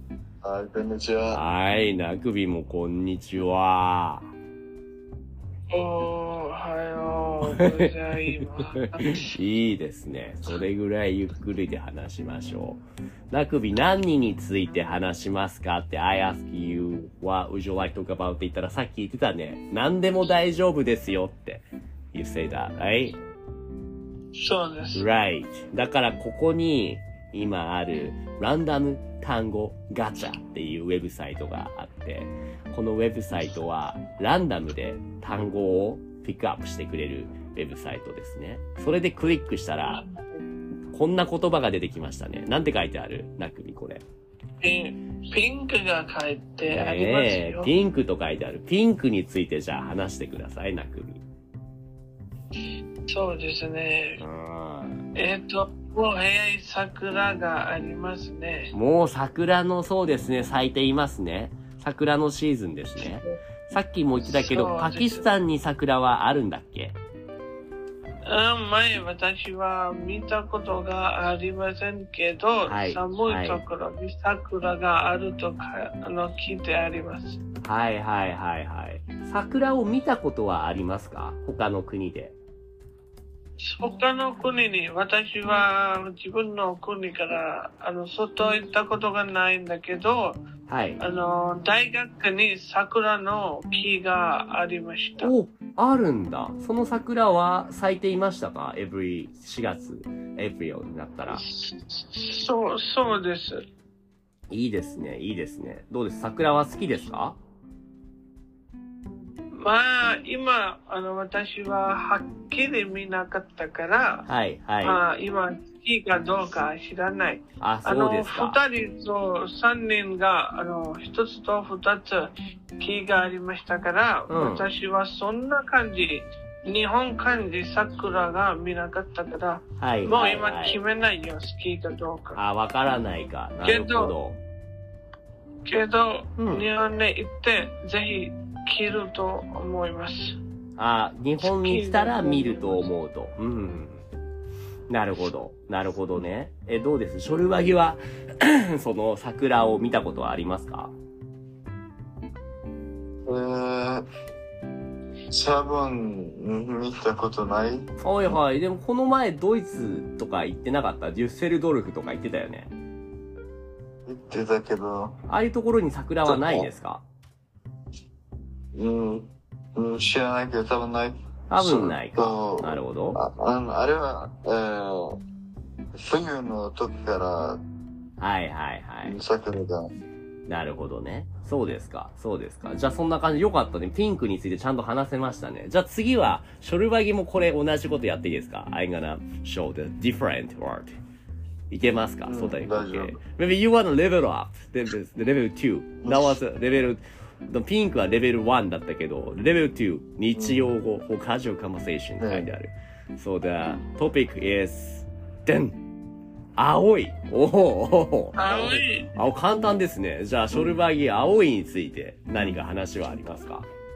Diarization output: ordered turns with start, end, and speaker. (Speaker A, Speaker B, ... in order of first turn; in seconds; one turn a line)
Speaker A: 0.4-1.4
Speaker B: 1.3-4.3
Speaker C: 5.7-9.3
Speaker B: 7.6-7.8
Speaker B: 9.3-23.2
Speaker C: 24.4-25.0
Speaker B: 24.9-40.0
Speaker C: 39.9-40.4
Speaker B: 40.9-44.0
Speaker C: 44.6-47.7
Speaker B: 46.7-51.2
Speaker C: 53.1-54.2
Speaker B: 54.2-55.0
Speaker C: 55.2-58.7
Speaker B: 58.7-67.0
Speaker C: 63.0-63.4
Speaker C: 64.2-65.2
Speaker C: 68.3-77.4
Speaker B: 72.7-73.6
Speaker B: 77.6-82.4
Speaker C: 83.6-90.4
Speaker B: 90.7-91.0
Speaker C: 91.0-95.3
Speaker B: 95.2-101.5
Speaker C: 101.3-103.6
Speaker B: 104.5-107.4
Speaker C: 109.5-114.3
Speaker B: 114.3-115.0
Speaker C: 114.8-132.4
Speaker B: 117.6-118.6
Speaker B: 124.3-124.7
Speaker B: 129.8-130.8
Speaker B: 132.3-134.4
Speaker C: 133.7-134.2
Speaker C: 135.7-140.4
Speaker B: 136.4-136.7
Speaker B: 140.8-144.0
Speaker C: 141.4-142.9
Speaker B: 144.9-150.9
Speaker A: 153.3-154.1
Speaker A: 155.3-157.9
Speaker B: 158.0-162.7
Speaker A: 164.1-165.2
Speaker B: 165.3-167.0
Speaker A: 166.2-166.7
Speaker A: 168.7-175.2
Speaker B: 171.5-173.2
Speaker A: 175.9-177.6
Speaker B: 178.2-179.2
Speaker A: 179.1-179.9
Speaker B: 180.5-191.0
Speaker B: 191.7-205.8
Speaker A: 192.3-193.2
Speaker A: 196.0-196.4
Speaker A: 200.3-200.7
Speaker A: 202.2-202.5
Speaker B: 206.6-213.7
Speaker C: 208.4-209.1
Speaker A: 208.5-208.8
Speaker A: 210.5-210.8